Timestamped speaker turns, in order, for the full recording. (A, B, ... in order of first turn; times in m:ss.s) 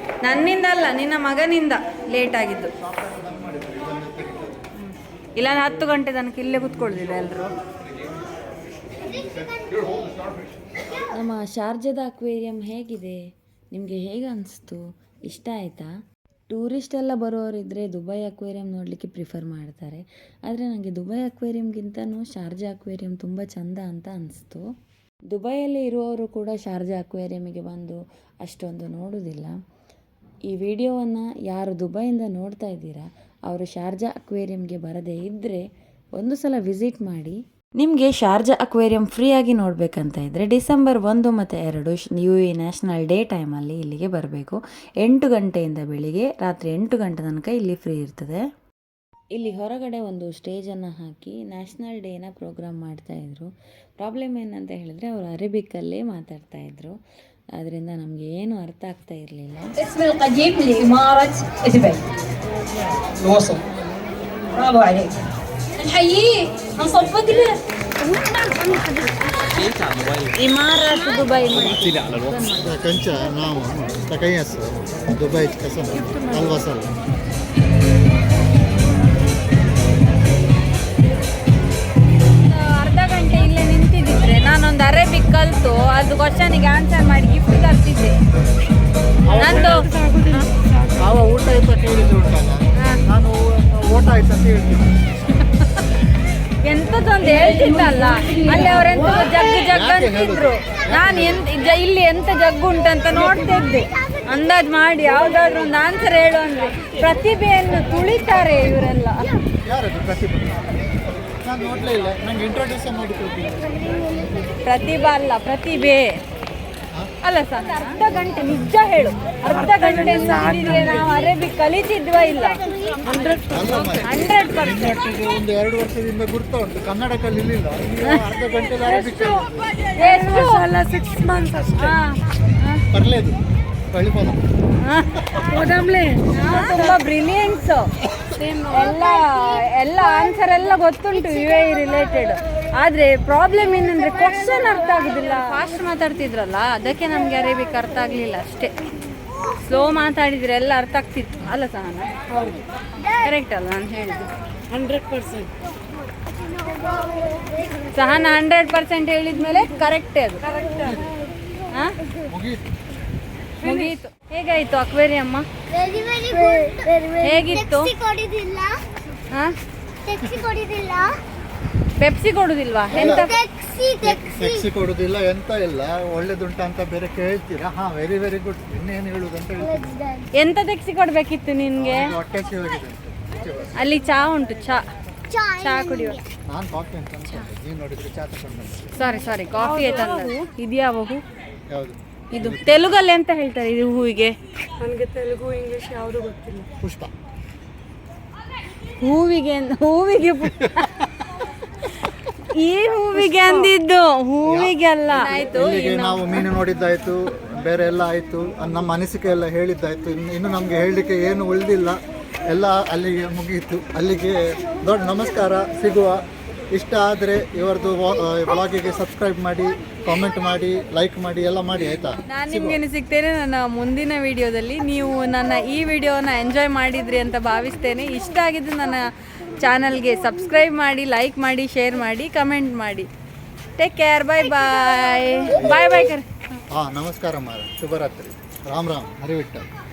0:00.2-0:02.7 A
0:02.8-0:04.5 B
0:04.8-0:07.5 A
0:09.0-0:11.1 C
0:11.1-0:13.2 D
0:13.7-0:15.9 D
0:16.5-0:24.6 D
0:25.3-0:29.6 D
0:30.5-0:35.6 D
0:36.2-0:48.4 D
0:49.4-0:53.5 D
0:54.0-0:57.0 D
0:57.6-0:59.7 D
0:59.8-1:02.0 E
1:03.2-1:03.6 E
1:04.5-1:05.2 E
1:05.8-1:09.7 E
1:10.4-1:12.7 A
1:12.6-1:16.9 B
1:22.5-1:28.2 A
1:29.3-1:29.7 B
1:29.3-1:31.0 F
1:29.4-1:29.8 A
1:31.0-1:34.9 B
1:36.7-1:49.2 A
1:37.3-1:38.9 E
1:39.3-1:39.7 C
1:39.7-1:41.4 B
1:43.1-1:44.7 C
1:48.0-1:49.4 C
1:49.6-1:50.9 B
1:51.4-1:53.7 B
1:53.8-1:54.6 C
1:54.6-1:56.0 A
1:57.2-2:02.6 A
1:59.5-2:01.3 F
2:03.0-2:04.0 F
2:03.5-2:04.1 B
2:04.0-2:05.0 A
2:04.6-2:09.5 B
2:08.8-2:12.0 F
2:10.0-2:10.6 A
2:11.8-2:12.8 A
2:12.9-2:13.4 B
2:13.9-2:14.4 B
2:14.8-2:15.2 A
2:15.5-2:17.0 F
2:16.3-2:17.9 A
2:18.4-2:19.0 F
2:18.7-2:28.7 A
2:18.9-2:19.6 C
2:29.6-2:32.1 A
2:32.3-2:32.6 F
2:33.2-2:34.3 A
2:34.7-2:35.5 F
2:36.4-2:38.1 C
2:37.9-2:40.5 A
2:40.5-2:40.8 F
2:42.3-2:42.6 B
2:43.6-2:45.5 A
2:45.7-2:48.7 C
2:47.2-2:47.9 A
2:50.0-2:51.1 C
2:52.0-2:53.3 A
2:52.9-2:54.7 C
2:52.9-2:53.2 B
2:54.0-2:59.8 B
2:59.6-3:00.3 C
3:00.4-3:02.1 A
3:01.8-3:03.8 B
3:03.8-3:04.8 A
3:05.3-3:06.2 C
3:05.6-3:06.2 A
3:06.5-3:08.9 B
3:09.0-3:11.2 A
3:09.6-3:10.3 F
3:11.7-3:12.9 B
3:12.3-3:14.3 A
3:14.8-3:16.7 F
3:16.8-3:17.1 B
3:19.0-3:21.1 A
3:22.5-3:26.5 A
3:23.2-3:23.7 F
3:24.5-3:24.8 B
3:25.2-3:25.5 F
3:25.4-3:42.8 B
3:42.3-3:49.1 A
3:49.6-3:53.1 A
3:53.8-3:56.2 A
3:54.8-3:56.1 C
3:55.6-3:55.9 B
3:56.7-3:59.7 B